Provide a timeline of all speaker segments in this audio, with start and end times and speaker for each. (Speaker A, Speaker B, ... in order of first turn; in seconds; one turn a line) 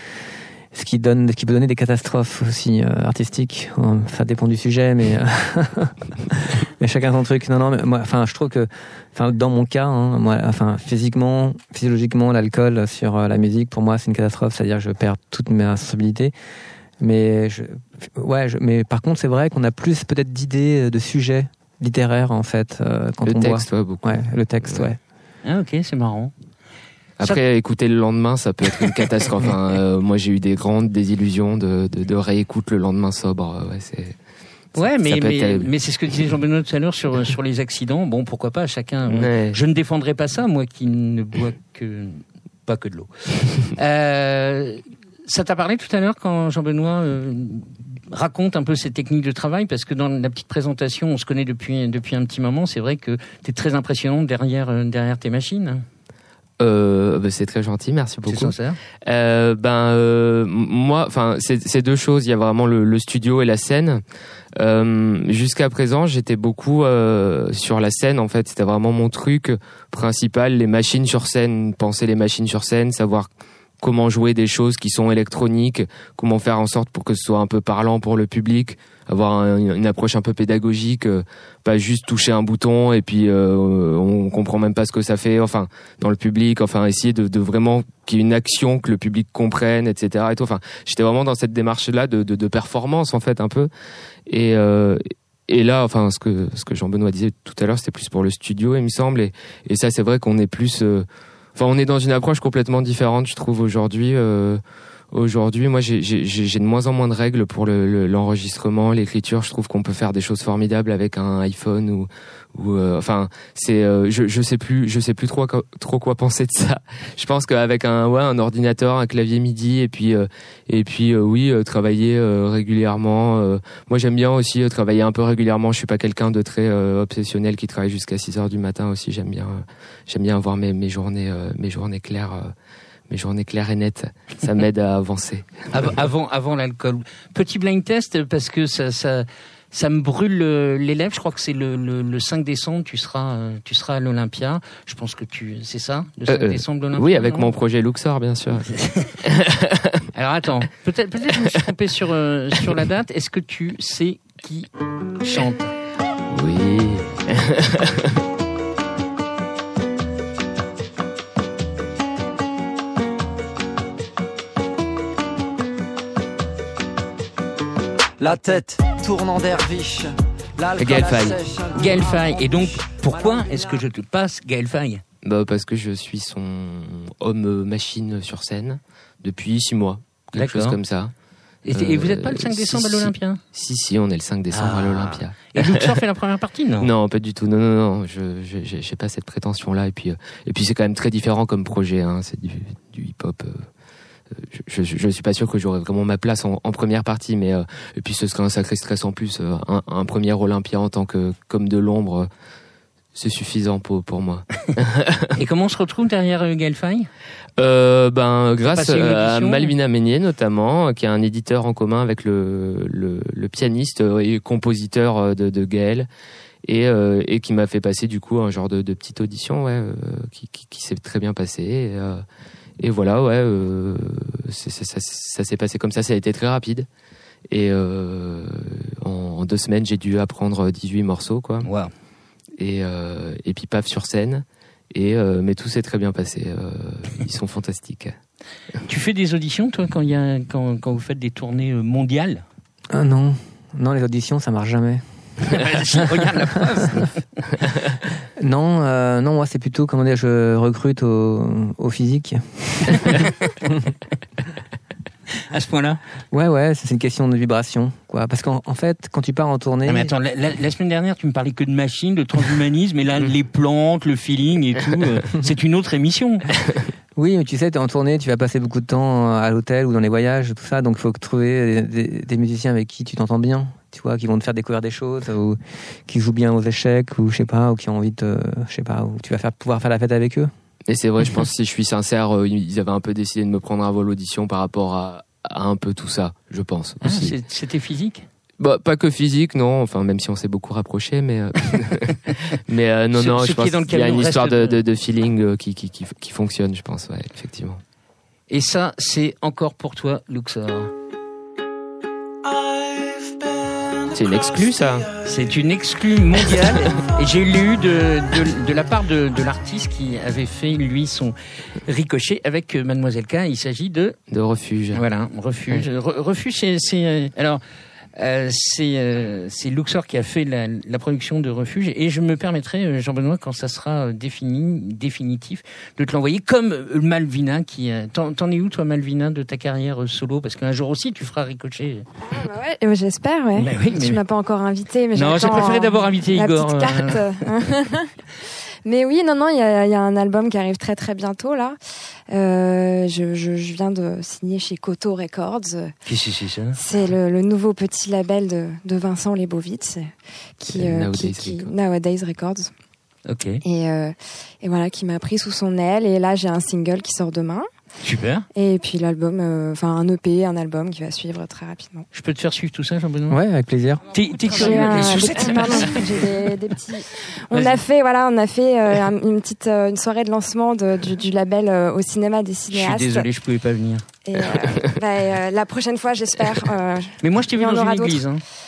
Speaker A: 0.7-16.3
Speaker A: 17.0-25.0
Speaker B: 23.2-24.9
Speaker C: 25.4-26.3
Speaker B: 27.2-34.2
Speaker C: 34.8-55.9
Speaker B: 34.8-35.7
Speaker B: 39.1-39.6
Speaker B: 56.6-64.0
Speaker C: 58.2-58.8
Speaker B: 64.6-73.3
Speaker B: 73.8-93.7
Speaker B: 94.3-104.6
Speaker B: 105.1-132.5
Speaker B: 133.1-135.9
Speaker C: 135.7-147.5
Speaker B: 146.3-150.1
Speaker C: 148.8-149.1
Speaker C: 150.1-154.7
Speaker C: 155.2-155.7
Speaker B: 156.3-158.2
Speaker D: 168.2-173.9
Speaker B: 170.8-171.4
Speaker C: 171.8-175.0
Speaker B: 175.2-181.1
Speaker C: 180.3-180.8
Speaker C: 181.7-183.4
Speaker B: 181.7-186.0
Speaker C: 184.5-186.9
Speaker B: 186.8-193.7
Speaker B: 194.4-202.3
Speaker B: 203.2-205.3
Speaker C: 205.4-207.1
Speaker B: 207.6-216.1
Speaker C: 208.7-209.7
Speaker B: 216.7-222.2
Speaker B: 222.8-226.9
Speaker B: 227.5-231.7
Speaker C: 231.6-231.9
Speaker B: 232.6-238.2
Speaker C: 238.9-242.4
Speaker A: 242.9-245.6
Speaker C: 245.5-247.1
Speaker A: 246.2-246.5
Speaker A: 248.4-253.9
Speaker C: 255.5-256.0
Speaker A: 256.3-260.1
Speaker C: 259.9-266.5
Speaker A: 267.2-280.5
Speaker B: 280.9-287.4
Speaker C: 287.0-288.3
Speaker B: 288.6-297.8
Speaker C: 293.2-294.8
Speaker C: 298.5-300.9
Speaker B: 304.1-305.1
Speaker C: 305.2-314.2
Speaker B: 314.3-315.0
Speaker C: 314.9-317.6
Speaker C: 318.1-332.1
Speaker E: 332.3-338.1
Speaker C: 333.6-334.2
Speaker C: 335.1-337.3
Speaker E: 338.9-341.8
Speaker E: 342.3-345.9
Speaker C: 346.1-346.8
Speaker E: 346.8-352.7
Speaker B: 350.7-351.7
Speaker C: 353.3-353.6
Speaker E: 353.6-357.7
Speaker C: 358.0-358.5
Speaker E: 358.6-362.1
Speaker C: 362.1-363.4
Speaker A: 363.3-364.1
Speaker C: 364.1-366.3
Speaker E: 364.5-373.3
Speaker C: 367.5-367.8
Speaker C: 372.7-374.1
Speaker E: 374.2-378.3
Speaker C: 377.2-378.4